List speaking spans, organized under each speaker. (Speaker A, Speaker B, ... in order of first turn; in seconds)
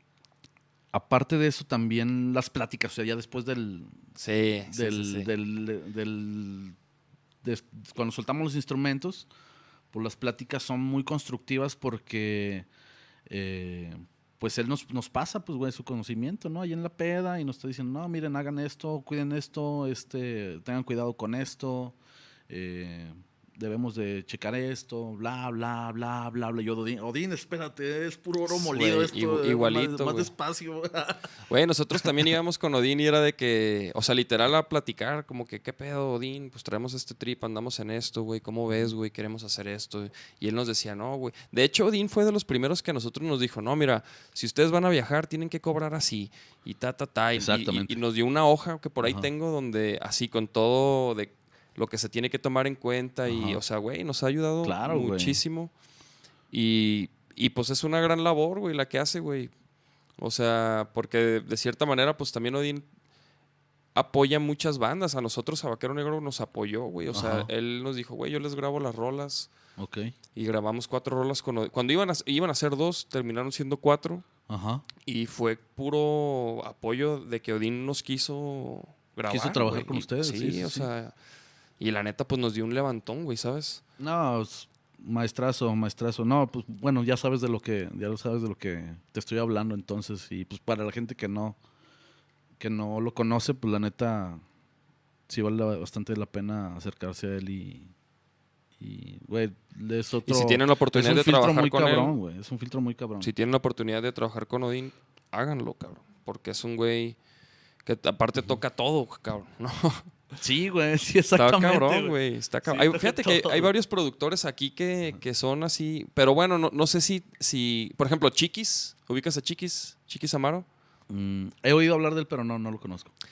Speaker A: 0.9-4.0, 4.7-6.8, 7.4-9.3, 9.9-12.7, 13.3-22.0, 22.5-31.3, 47.3-48.0, 49.0-49.3, 53.3-53.6, 54.6-55.4, 67.1-67.5, 69.8-70.1, 74.5-74.8, 79.3-80.9, 84.0-91.6, 92.6-94.4, 95.3-97.9, 98.8-103.3, 110.4-113.7, 121.1-123.1
Speaker B: 4.2-5.3, 28.5-30.3, 31.5-55.7, 56.5-59.5, 60.2-62.9, 63.9-69.5, 70.3-74.2, 75.0-81.1, 81.8-83.8, 100.2-102.1, 103.2-107.2, 107.8-110.1, 111.3-120.7